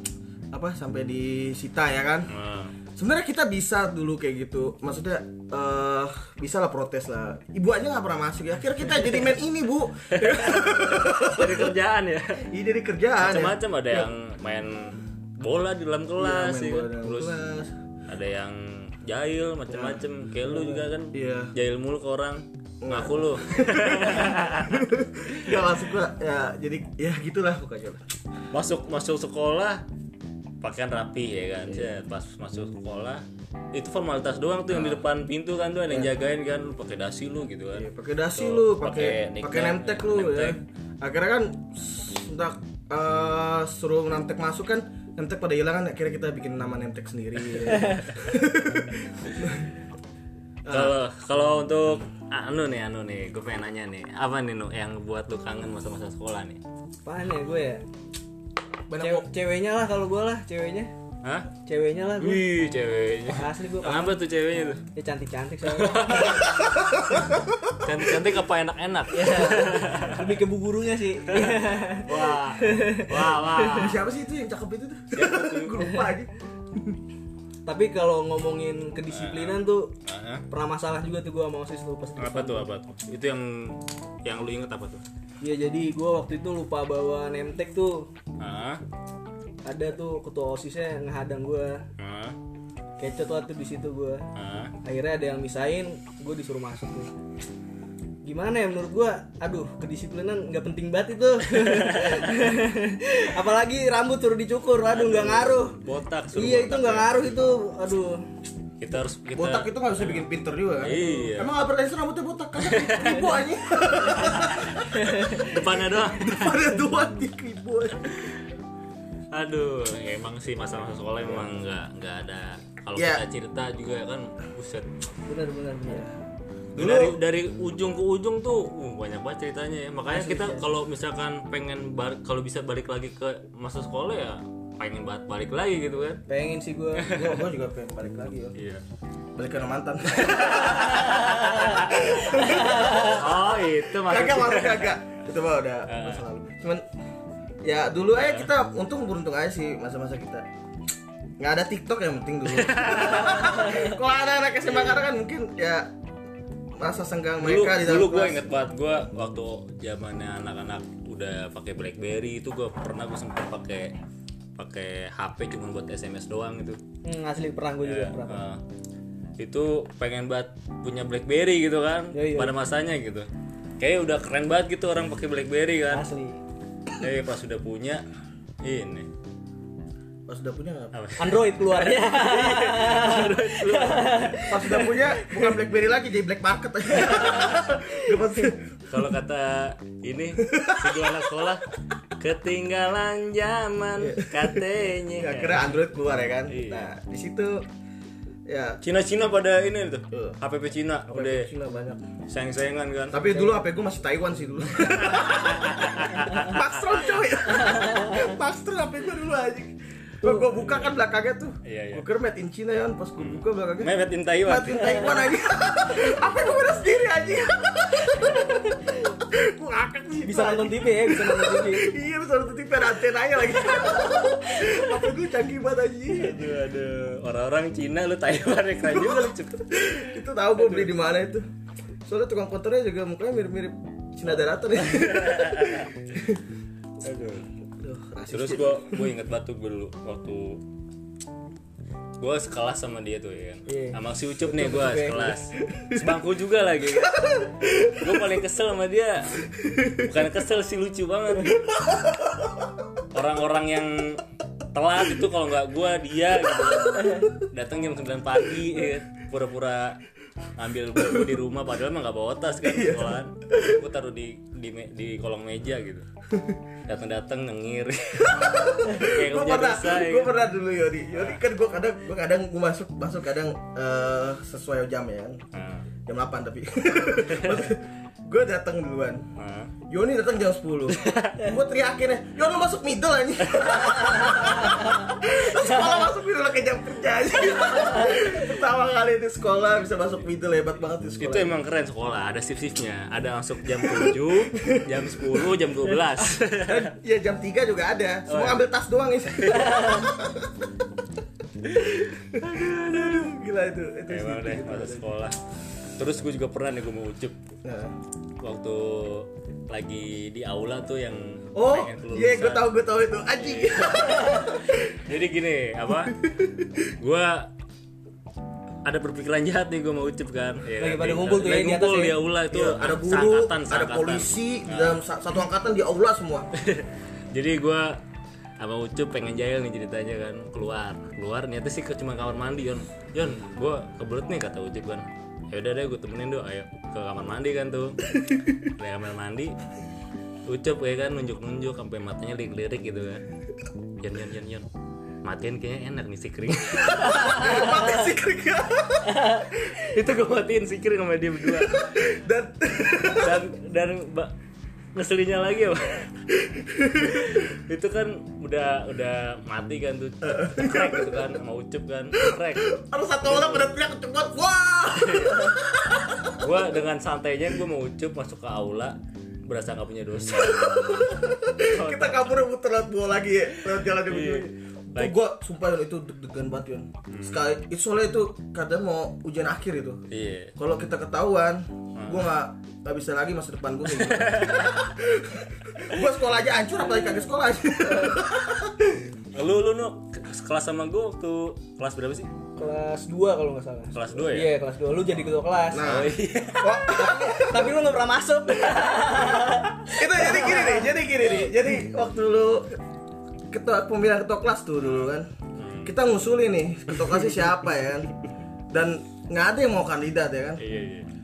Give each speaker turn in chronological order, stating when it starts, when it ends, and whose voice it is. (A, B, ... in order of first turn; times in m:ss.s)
0:00.5-0:02.3 A
0:02.3-0:02.8 B
0:03.0-0:11.7 A
0:10.1-0:12.4 B
0:12.5-0:13.6 A
0:13.2-0:17.4 B
0:16.2-0:17.7 A
0:18.1-0:24.8 B
0:19.7-0:21.5 A
0:22.8-0:28.0 A
0:28.5-0:29.8 B
0:30.6-0:40.6 B
0:34.7-0:35.0 A
0:37.7-0:49.7 A
0:50.6-0:51.0 A
0:50.7-0:56.6 B
0:57.0-0:57.8 C
0:58.9-0:59.3 A
0:59.0-1:00.9 C
1:01.2-1:01.5 B
1:01.6-1:02.5 C
1:02.2-1:04.8 B
1:03.3-1:04.2 C
1:04.9-1:06.4 C
1:05.7-1:06.5 B
1:06.3-1:07.6 A
1:07.8-1:10.3 B
1:09.1-1:13.9 C
1:11.3-1:14.0 B
1:13.7-1:17.0 A
1:15.1-1:15.9 B
1:17.6-1:19.9 C
1:19.1-1:20.4 B
1:20.5-1:22.7 C
1:22.2-1:25.0 B
1:25.4-1:28.1 C
1:28.4-1:28.8 B
1:29.6-1:31.8 C
1:32.0-1:32.4 B
1:33.0-1:34.2 C
1:34.4-1:34.7 B
1:34.8-1:37.1 C
1:38.2-1:45.8 C
1:41.6-1:42.3 B
1:44.9-1:47.5 B
1:46.4-1:48.2 C
1:48.8-1:50.3 B
1:49.4-1:58.3 A
1:50.8-1:51.5 B
1:52.6-1:53.3 B
1:54.2-1:56.8 B
1:59.3-2:04.9 B
2:03.0-2:03.2 A
2:05.3-2:06.1 C
2:05.9-2:06.1 A
2:06.7-2:16.2 B
2:06.8-2:07.2 A
2:10.1-2:10.6 A
2:10.3-2:10.5 C
2:16.3-2:17.2 C
2:17.0-2:17.4 B
2:17.0-2:18.6 A
2:18.6-2:18.8 B
2:19.4-2:23.2 A
2:20.2-2:21.9 B
2:22.6-2:23.0 C
2:23.1-2:24.9 B
2:24.1-2:26.8 A
2:25.9-2:26.2 B
2:27.6-2:30.4 A
2:28.2-2:28.5 B
2:31.4-2:35.9 A
2:32.5-2:33.9 B
2:36.8-2:38.5 A
2:37.4-2:44.0 B
2:44.6-2:46.8 B
2:47.0-2:48.4 C
2:47.8-2:48.6 B
2:49.4-2:53.3 B
2:52.1-2:52.6 C
2:53.8-2:56.0 B
2:55.9-2:56.4 C
2:57.0-2:58.0 B
2:58.6-2:59.1 B
3:00.3-3:00.9 A
3:00.9-3:04.4 B
3:01.2-3:05.6 C
3:04.5-3:08.8 A
3:07.0-3:07.6 C
3:08.9-3:15.7 B
3:10.4-3:11.1 A
3:14.0-3:14.6 A
3:15.2-3:17.6 A
3:16.5-3:16.9 B
3:18.5-3:18.8 A
3:18.8-3:21.5 B
3:20.1-3:20.4 A
3:21.1-3:22.0 A
3:22.3-3:23.2 B
3:23.1-3:46.4 A
3:23.3-3:23.6 C
3:24.8-3:27.0 B
3:30.6-3:31.0 B
3:31.6-3:32.0 B
3:33.2-3:35.2 B
3:40.2-3:41.9 C
3:46.1-3:49.8 B
3:48.8-3:51.5 A
3:50.6-3:50.9 B
3:52.1-3:56.4 A
3:54.8-3:55.9 B
3:57.0-3:57.5 B
3:57.8-3:59.1 A
3:58.3-4:00.6 B
4:02.2-4:11.7 B
4:03.7-4:05.4 C
4:13.1-4:14.2 B
4:14.7-4:20.0 B
4:20.6-4:26.1 B
4:22.6-4:23.6 A
4:26.9-4:30.4 B
4:28.3-4:35.4 A
4:31.2-4:31.4 B
4:35.5-4:35.9 B
4:36.1-4:39.2 A
4:37.2-4:37.7 B
4:39.4-4:39.7 B
4:39.9-4:51.6 A
4:41.0-4:41.5 B
4:43.7-4:44.7 B
4:51.2-4:56.9 B
4:56.7-5:00.6 A
4:58.3-4:58.6 B
4:59.3-5:00.1 B
5:01.9-5:05.1 A
5:04.1-5:05.4 B
5:06.0-5:07.4 B
5:07.6-5:08.0 A
5:08.4-5:12.7 B
5:11.5-5:14.9 A
5:13.4-5:16.2 B
5:16.0-5:16.7 A
5:16.9-5:17.5 B
5:18.8-5:25.0 B
5:20.8-5:22.2 C
5:22.5-5:26.5 A
5:26.6-5:28.0 B
5:28.6-5:39.6 B
5:40.4-5:43.2 B
5:44.0-5:44.7 B
5:45.2-5:48.1 B
5:47.0-5:49.8 A
5:49.0-5:52.1 B
5:51.5-5:53.4 A
5:53.1-5:54.3 B
5:55.0-5:56.3 B
5:56.4-5:57.2 A
5:57.0-6:03.7 B
6:00.2-6:01.3 A
6:02.2-6:06.6 A
6:05.0-6:05.6 B
6:06.4-6:10.6 B
6:10.4-6:20.0 A
6:11.7-6:12.4 B
6:14.0-6:15.2 B
6:17.1-6:17.4 B
6:20.1-6:20.5 B
6:20.6-6:29.1 A
6:22.0-6:22.3 B
6:23.9-6:24.8 B
6:29.3-6:32.3 B
6:32.6-6:36.0 C
6:33.9-6:34.5 B
6:35.7-6:37.8 A
6:35.8-6:36.8 B
6:36.9-6:40.9 C
6:39.9-6:42.8 A
6:43.5-6:45.3 A
6:44.8-6:46.0 B
6:45.8-6:48.2 A
6:48.7-6:50.6 A
6:50.6-6:51.1 B